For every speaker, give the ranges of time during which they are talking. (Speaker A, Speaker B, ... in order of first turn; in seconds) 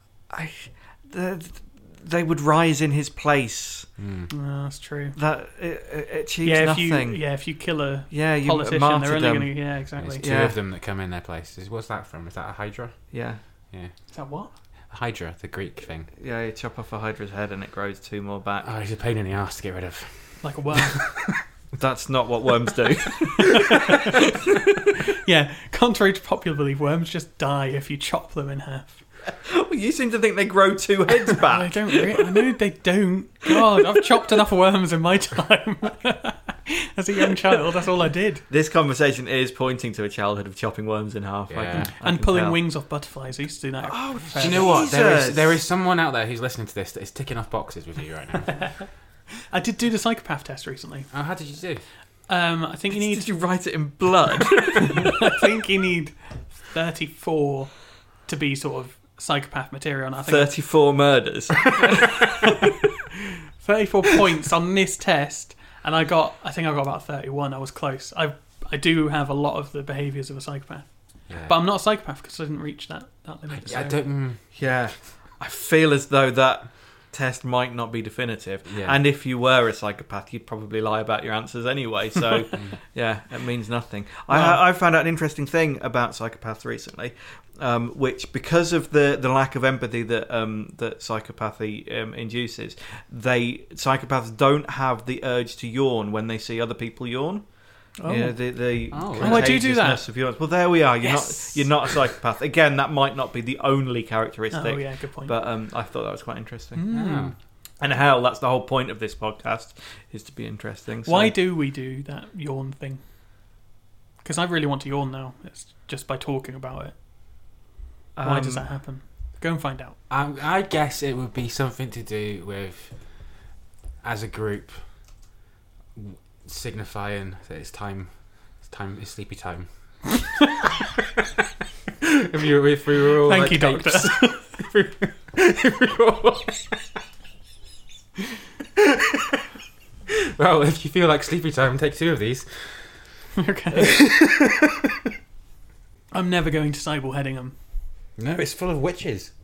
Speaker A: 0.3-3.9, 5.2-7.2, 8.1-9.6, 10.2-10.6, 13.1-13.4, 16.2-18.7, 21.8-24.8, 29.4-32.3, 38.5-42.6, 43.9-45.6, 52.9-55.1, 60.2-62.2, 74.5-106.8, 107.8-111.3, 118.2-118.7
Speaker B: 4.0-4.3, 10.0-13.1, 14.9-16.1, 18.6-21.4, 41.5-41.9, 44.4-48.7, 51.1-51.8, 71.3-71.6, 73.5-74.4, 78.7-79.0, 98.9-99.6, 106.9-107.3, 120.1-123.0, 124.0-124.8, 125.9-129.7, 130.6-131.4, 132.0-137.0, 138.8-139.4, 140.1-143.1, 143.7-145.1, 148.2-149.3
Speaker C: 4.3-5.2, 6.4-10.2, 14.1-14.5, 20.4-21.0, 23.4-24.2, 25.2-29.0, 31.5-38.4, 41.7-44.8, 49.5-51.1, 52.3-53.3, 54.9-60.5, 61.8-62.7, 63.6-74.0, 84.3-84.6, 98.0-100.0, 101.0-102.0, 104.5-105.3, 106.7-107.3, 111.0-113.0, 114.2-116.9, 118.2-120.0, 133.2-134.4, 143.3-143.9, 146.1-147.6